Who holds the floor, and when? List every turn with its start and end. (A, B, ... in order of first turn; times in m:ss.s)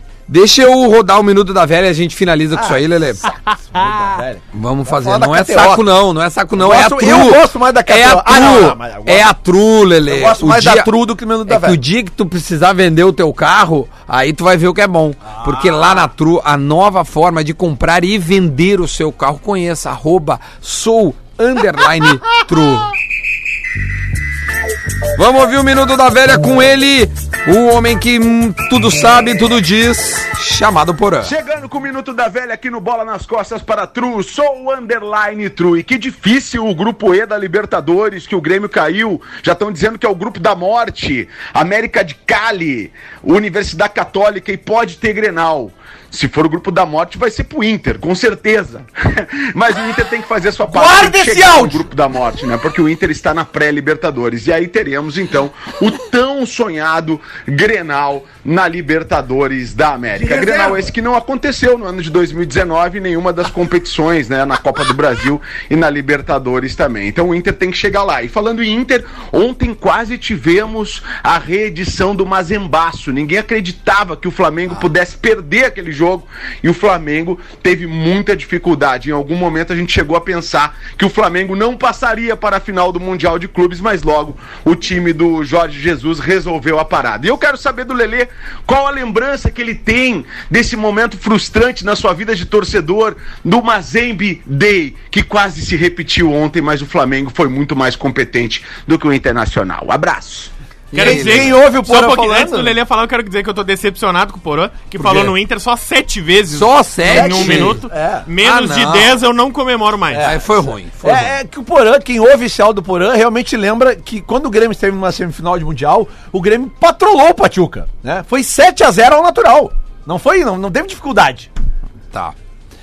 0:00.3-0:03.3 A
0:02.5-0:05.9 B
0:04.5-0:10.9 A
0:06.5-0:09.3 B
0:10.0-0:11.8 B
0:11.4-0:22.9 A
0:15.2-0:16.1 B
0:25.1-0:31.3 A
0:31.2-1:40.5 C
0:50.6-0:51.9 B
1:00.1-1:00.9 B
1:40.9-1:41.6 A
1:40.9-1:50.3 D
1:40.9-1:42.8 B
1:45.0-1:45.3 A
1:46.5-1:47.8 A
1:47.0-1:48.3 B
1:48.4-1:49.1 A
1:50.1-2:01.5 B
1:50.2-1:51.3 A